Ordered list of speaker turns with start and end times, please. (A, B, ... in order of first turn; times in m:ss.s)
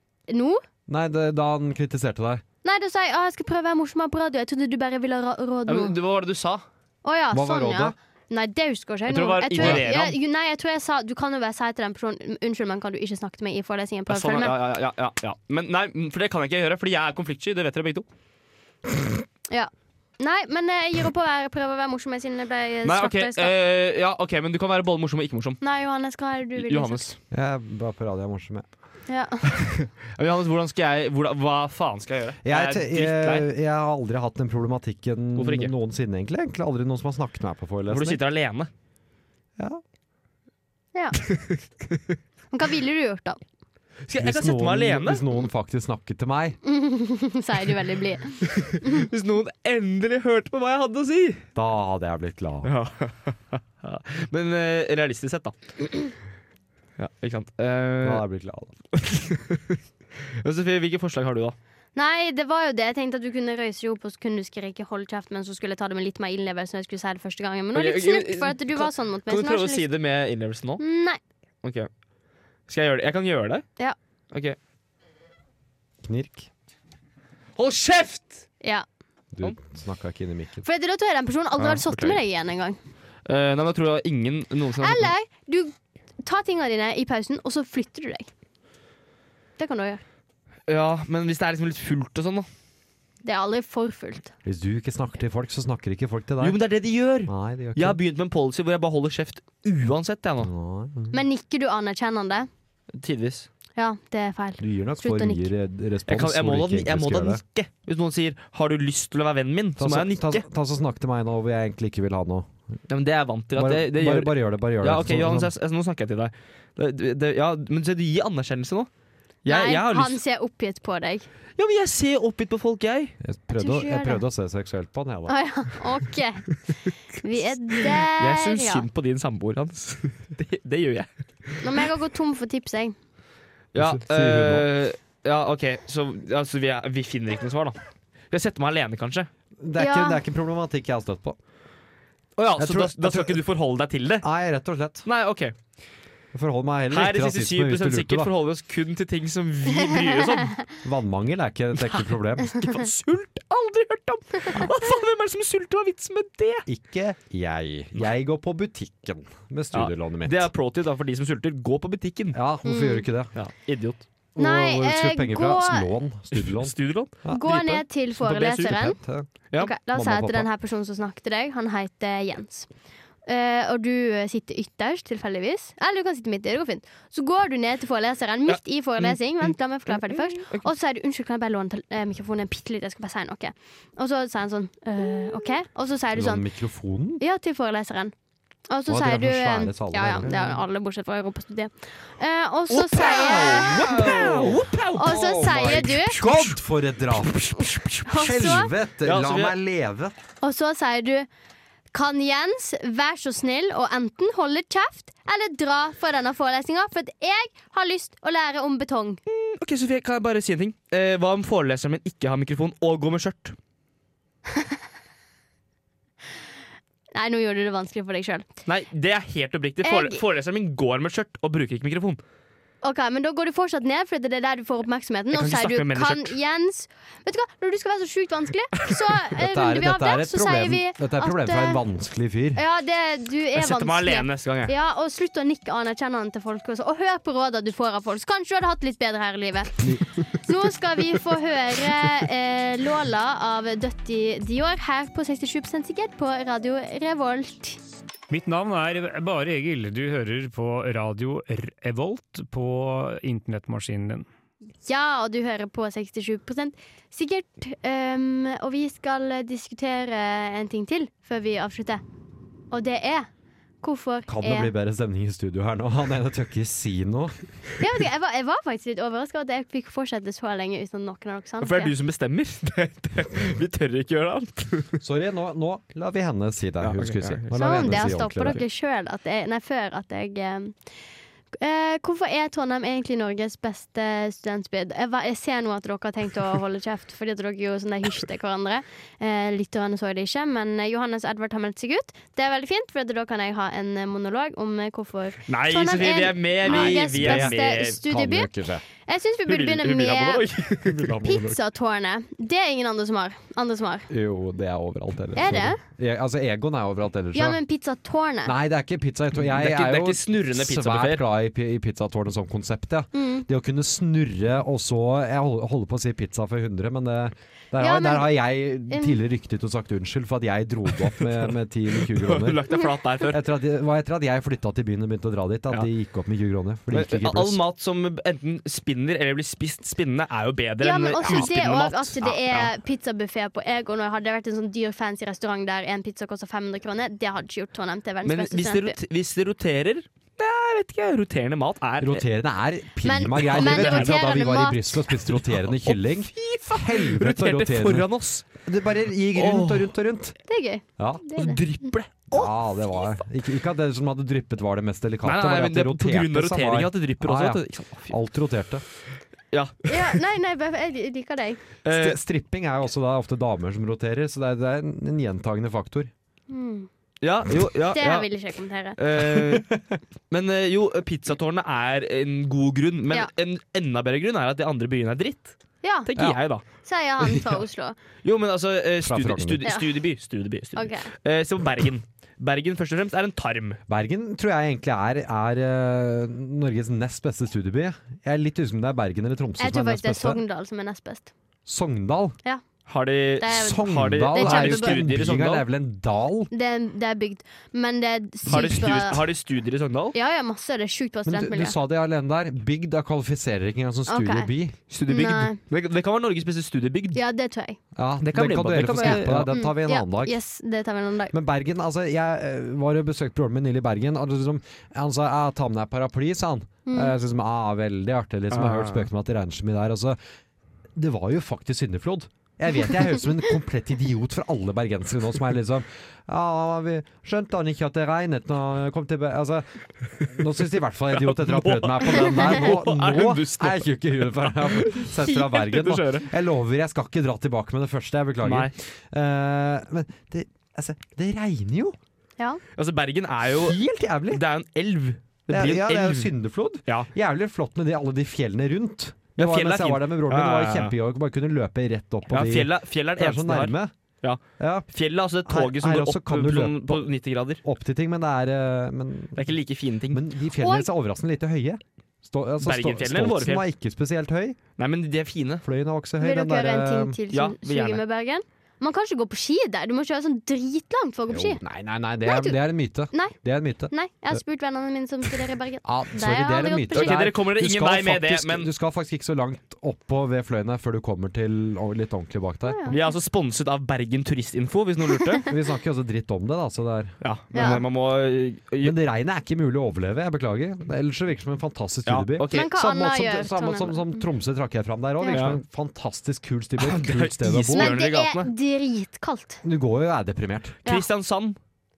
0:00.3-0:00.6 A
0:00.9-0:02.4 B
0:02.6-0:05.9 A
0:05.7-0:06.6 C
0:07.0-0:14.5 A
0:07.3-0:07.9 B
0:09.1-0:10.2 C
0:09.6-0:09.8 B
0:14.1-0:18.0 C
0:19.5-0:23.5 A
0:22.8-0:25.6 C
0:25.6-0:27.1 A
0:26.6-0:27.2 C
0:27.3-0:28.6 B
0:29.1-0:29.5 A
0:29.5-0:33.4 C
0:32.4-0:38.2 B
0:35.4-0:35.7 C
0:37.9-0:38.7 C
0:41.3-0:42.0 C
0:42.5-0:43.4 A
0:44.1-0:45.2 C
0:44.2-0:46.6 B
0:46.6-0:49.0 A
0:48.4-0:51.4 C
0:51.5-0:52.7 B
0:52.6-0:55.6 C
0:57.0-0:58.2 C
0:58.0-0:58.7 B
0:58.9-1:01.6 C
1:02.0-1:09.9 A
1:07.7-1:10.8 C
1:10.8-1:11.2 A
1:11.6-1:11.9 C
1:12.7-1:13.6 C
1:16.0-1:16.5 B
1:17.6-1:18.4 C
1:19.3-1:20.6 B
1:20.6-1:22.8 A
1:21.6-1:22.2 C
1:23.2-1:25.1 C
1:24.8-1:28.3 A
1:29.6-1:30.0 A
1:30.7-1:32.5 C
1:33.2-1:34.3 A
1:34.4-1:36.6 B
1:36.4-1:40.5 C
1:37.2-1:38.0 B
1:40.4-1:41.2 B
1:41.1-1:42.5 A
1:43.0-1:43.5 C
1:43.8-1:45.5 A
1:44.6-1:47.4 B
1:46.1-1:50.4 C
1:49.8-1:52.5 B
1:52.9-1:58.9 C
1:53.5-1:55.5 B
1:59.4-2:00.2 C
1:59.4-2:01.3 A
2:01.6-2:03.1 C
2:03.2-2:05.3 B
2:03.6-2:04.2 A
2:05.3-2:06.4 A
2:07.1-2:08.8 A
2:07.8-2:11.9 C
2:11.6-2:13.0 A
2:13.7-2:17.8 C
2:13.8-2:14.7 B
2:18.3-2:19.3 C
2:19.6-2:21.4 B
2:19.8-2:20.2 A
2:22.4-2:24.2 C
2:22.6-2:23.4 B
2:24.2-2:25.0 B
2:25.0-2:25.5 C
2:26.3-2:28.3 B
2:26.9-2:30.6 C
2:29.8-2:30.6 A
2:30.8-2:32.6 B
2:31.7-2:36.6 C
2:36.7-2:40.5 B
2:39.7-2:42.4 C
2:42.3-2:43.3 B
2:42.6-2:43.0 A
2:43.3-2:44.1 C
2:44.3-2:47.4 B
2:44.4-2:45.9 A
2:46.3-2:49.0 C
2:47.3-2:49.0 A
2:48.7-2:49.3 B
2:49.6-2:52.7 A
2:49.9-2:50.5 B
2:53.2-3:06.4 A
2:58.5-3:00.7 C
3:06.1-3:07.2 B
3:07.2-3:08.1 A
3:08.7-3:14.3 A
3:08.9-3:10.3 B
3:10.2-3:10.6 C
3:12.7-3:16.6 C
3:13.1-3:20.1 B
3:14.9-3:16.2 A
3:18.0-3:18.7 A
3:19.0-3:19.5 C
3:20.4-3:21.3 A
3:21.9-3:29.2 A
3:29.3-3:33.6 C
3:37.1-3:38.5 A
3:38.6-3:42.2 C
3:39.8-3:40.2 A
3:42.8-3:51.8 A
3:45.3-3:46.4 C
3:49.4-3:52.6 B
3:52.5-3:59.8 A
3:53.5-3:54.7 C
3:59.8-4:00.0 B
4:00.4-4:07.8 A
4:08.3-4:14.3 D
4:14.8-4:22.0 A
4:22.7-4:23.3 A
4:23.8-4:24.7 A
4:24.3-4:27.4 B
4:27.8-4:31.9 A
4:31.6-4:35.0 C
4:35.0-4:38.6 B
4:36.8-4:38.5 C
4:37.5-4:40.8 A
4:41.6-5:00.5 A
4:55.5-4:58.0 C
4:56.6-4:58.8 B
4:59.5-5:01.2 C
5:00.8-5:01.6 B
5:01.2-5:04.1 A
5:04.1-5:07.6 B
5:05.3-5:05.8 A
5:07.3-5:08.5 A
5:08.4-5:22.6 B
5:09.3-5:11.2 C
5:13.1-5:13.4 A
5:17.8-5:18.4 A
5:18.9-5:19.2 A
5:22.0-5:23.4 C
5:23.3-5:27.6 B
5:26.9-5:32.7 C
5:30.8-5:39.0 A
5:38.2-5:42.2 C
5:42.0-5:48.1 B
5:43.0-5:45.0 A
5:43.4-5:44.2 C
5:45.2-5:48.5 C
5:48.6-5:50.4 B
5:49.3-5:49.9 C
5:50.5-5:51.6 A
5:51.0-5:51.4 B
5:51.3-5:53.2 C
5:52.3-5:58.8 B
5:55.2-5:58.2 C
5:59.5-6:00.2 C
5:59.9-6:01.6 A
6:01.8-6:02.2 C
6:01.9-6:06.1 B
6:06.5-6:06.9 A
6:07.2-6:08.3 C
6:07.9-6:09.0 A
6:09.0-6:09.7 C
6:09.3-6:10.0 B
6:10.3-6:15.5 C
6:15.8-6:16.1 A
6:16.0-6:16.6 C
6:16.8-6:18.0 A
6:18.2-6:23.8 C
6:19.0-6:19.6 B
6:20.8-6:21.1 A
6:23.9-6:30.4 B
6:29.6-6:31.3 A
6:31.6-6:32.4 B
6:32.9-6:35.6 C
6:33.4-6:35.0 A
6:33.5-6:36.5 B
6:36.5-6:39.3 A
6:38.4-6:40.1 C
6:38.5-6:38.8 B
6:40.1-6:41.7 A
6:41.3-6:44.8 B
6:44.1-6:44.5 A
6:44.9-6:47.2 C
6:45.1-6:45.6 A
6:47.1-6:47.8 A
6:48.0-6:50.4 B
6:48.2-6:49.5 C
6:49.0-6:51.3 A
6:51.3-7:00.2 B
6:56.9-6:57.1 A
6:58.5-6:59.1 C
7:00.9-7:09.6 B
7:10.2-7:22.0 B
7:11.1-7:16.3 C
7:18.4-7:18.7 C
7:22.7-7:23.8 C
7:23.5-7:24.4 B
7:24.3-7:26.3 C
7:25.5-7:33.9 B
7:29.4-7:30.9 C
7:32.3-7:34.4 C
7:34.6-7:34.9 B
7:34.9-7:37.6 C
7:35.4-7:37.1 B
7:37.6-7:39.5 B
7:39.4-7:40.2 C
7:40.1-7:44.6 B
7:40.6-7:40.9 A
7:42.6-7:43.6 C
7:44.8-7:45.6 C
7:45.6-7:47.2 B
7:46.2-7:51.6 A
7:47.3-7:48.0 C
7:51.3-7:54.4 B
7:52.2-7:52.6 A
7:53.9-7:57.2 A
7:55.8-8:03.0 B
7:56.9-7:58.7 C
8:02.6-8:03.0 A
8:02.9-8:05.5 C
8:05.5-8:07.1 B
8:07.2-8:09.0 C
8:07.5-8:07.8 A
8:08.8-8:18.0 B
8:12.0-8:12.7 C
8:12.5-8:14.2 A
8:15.2-8:15.5 A
8:15.3-8:15.6 C
8:16.8-8:18.5 C
8:17.7-8:19.6 A
8:19.6-8:20.8 B
8:20.8-8:21.6 C